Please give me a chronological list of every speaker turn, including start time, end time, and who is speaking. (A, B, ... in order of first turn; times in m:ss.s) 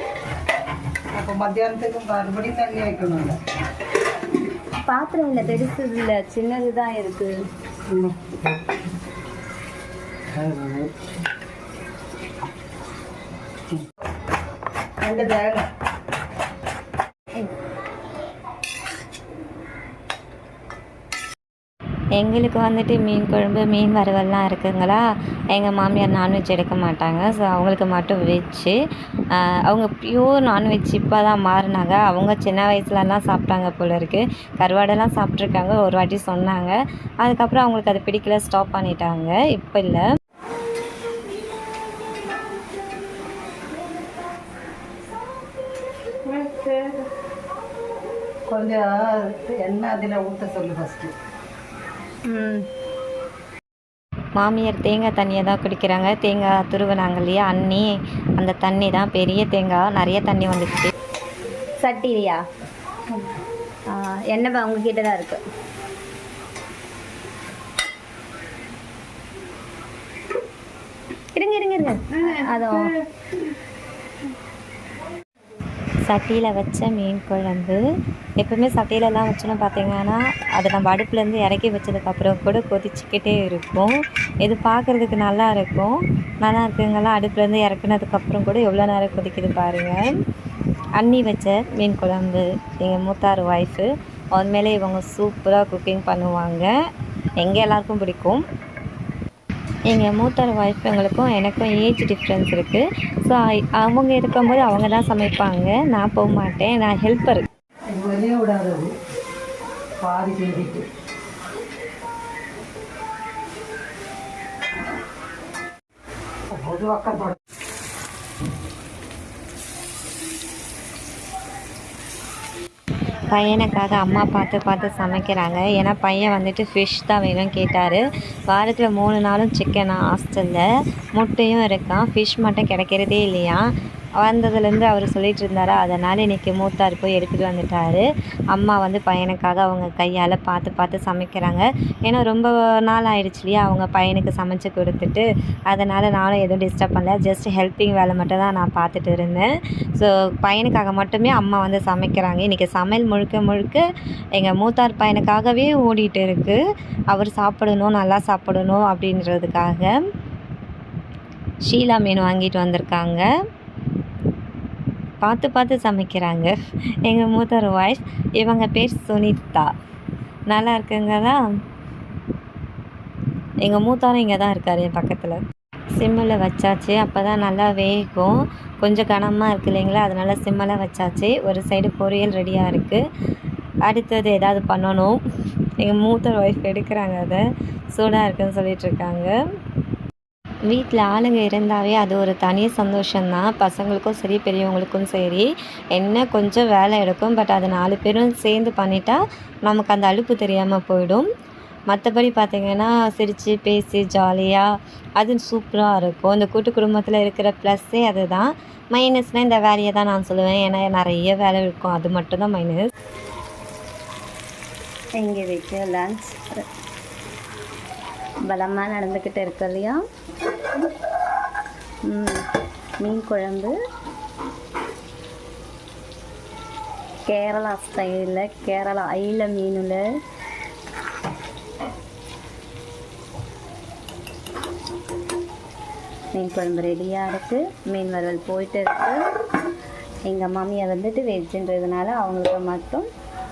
0:01.1-0:03.4 A
0:04.8-0:07.3 B
0:07.9-0:08.5 A
0:10.3-0:10.9 A
0:15.0-0:15.6 A
0:22.2-0:28.8 C
0:29.3-0:40.0 C
0:46.3-0:47.0 B
0:48.5-0:51.1 A
0:52.2-0:52.6 B
0:54.4-1:00.9 C
1:01.8-1:02.4 B
1:03.9-1:05.4 B
1:11.3-1:13.0 B
1:16.0-1:17.8 C
1:18.4-1:30.0 C
1:31.0-1:36.7 C
1:37.4-1:38.4 C
1:39.9-1:47.4 C
1:47.9-1:48.9 A
1:50.0-1:50.9 A
1:56.5-1:57.4 A
2:03.2-2:10.6 C
2:11.2-2:13.6 C
2:14.2-2:33.8 C
2:34.4-2:36.6 C
2:37.1-2:39.9 C
2:41.6-2:43.2 C
2:45.2-2:46.5 C
2:47.0-2:49.7 C
2:50.5-2:51.4 C
2:53.6-2:55.4 C
2:55.9-3:03.0 C
3:03.9-3:05.2 C
3:05.8-3:09.3 C
3:10.7-3:21.2 C
3:21.9-3:24.6 C
3:25.2-3:32.8 C
3:35.2-3:36.6 B
3:38.5-3:40.0 B
3:42.1-3:42.4 B
3:43.0-3:43.7 B
3:47.2-3:50.0 B
3:56.3-3:59.2 B
4:00.3-4:03.1 B